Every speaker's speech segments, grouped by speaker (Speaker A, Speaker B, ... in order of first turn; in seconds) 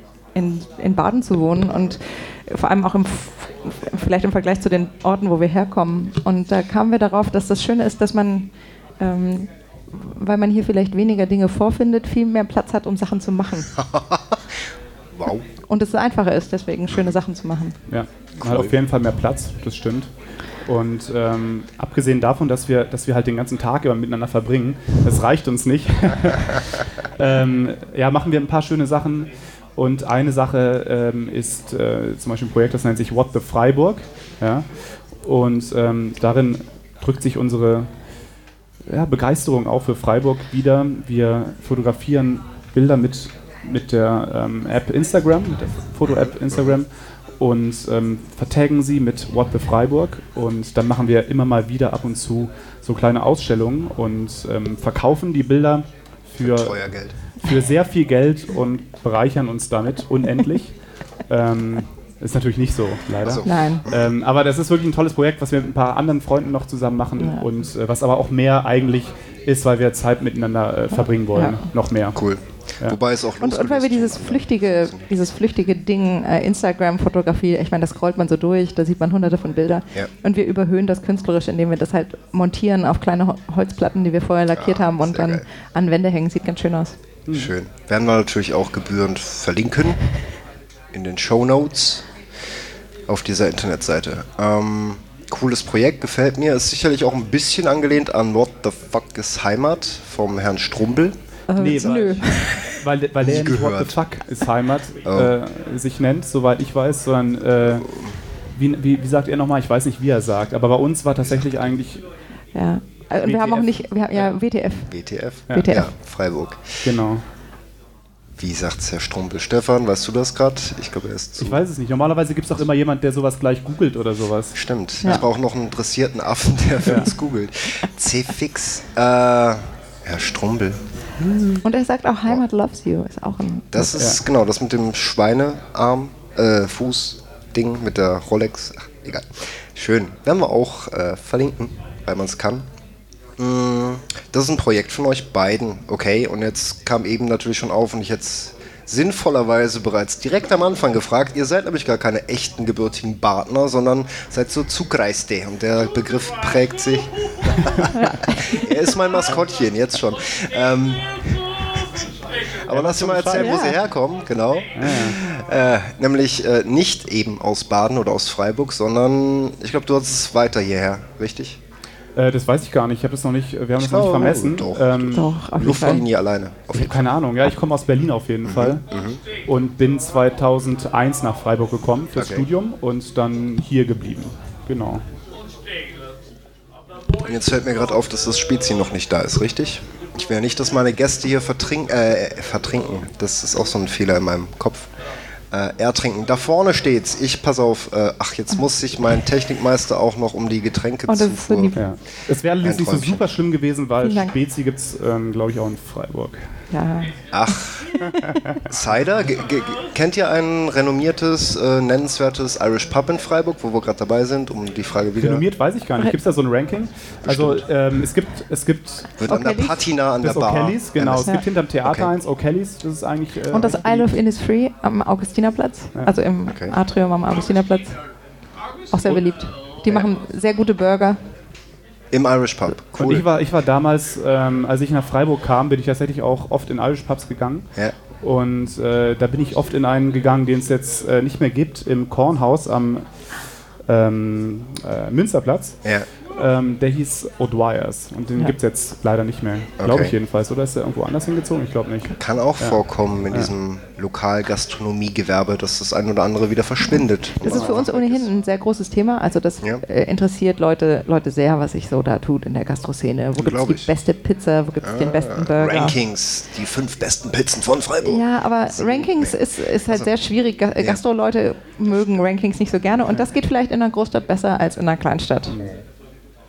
Speaker A: 0.3-13.7, 15.7-17.8, 63.5-63.9, 67.2-67.5, 71.0-71.6, 73.4-87.0, 101.5-102.5, 112.5-114.9, 115.5-115.9, 131.6-133.7, 157.9-158.7, 163.3-163.8, 175.1-176.1, 201.1-201.8, 204.0-204.3, 206.7-208.0, 219.3-219.8, 223.5-228.0, 228.9-231.2, 256.9-266.0, 268.0-275.6
Speaker B: 13.8-14.6, 15.2-15.4, 18.4-18.7, 46.1-46.8, 56.4-57.1, 63.2-64.1, 72.1-75.1, 84.5-85.5, 87.3-90.0, 90.9-92.1, 93.1-104.0, 105.1-105.3, 107.6-108.2, 111.2-111.5, 114.9-116.8, 118.4-121.6, 124.5-130.8, 133.7-142.7, 143.4-161.6, 162.7-171.6, 173.8-177.1, 178.4-179.2, 182.2-182.5, 187.2-194.9, 195.5-201.8, 202.6-203.3, 207.3-207.9, 208.7-215.4, 217.2-217.7, 219.2-222.1, 226.5-226.8, 232.1-233.3, 249.8-250.2, 252.2-258.3, 263.4-263.9, 264.8-270.1
Speaker C: 17.9-20.1, 20.7-34.7, 35.2-37.9, 38.9-46.9, 47.4-56.8, 57.4-60.7, 61.3-72.2, 87.3-87.5, 101.6-107.9, 108.5-112.0, 113.2-114.3, 116.8-117.2, 121.4-124.5, 126.9-127.1, 131.2-131.6, 133.9-134.2, 162.7-163.6, 164.8-165.2, 172.2-175.3, 176.7-178.8, 179.5-185.0, 201.8-206.4, 208.2-208.5, 215.2-219.1, 220.2-224.1, 233.0-237.7, 238.2-243.1, 243.9-245.8, 246.3-253.5, 257.4-257.9, 275.5-275.7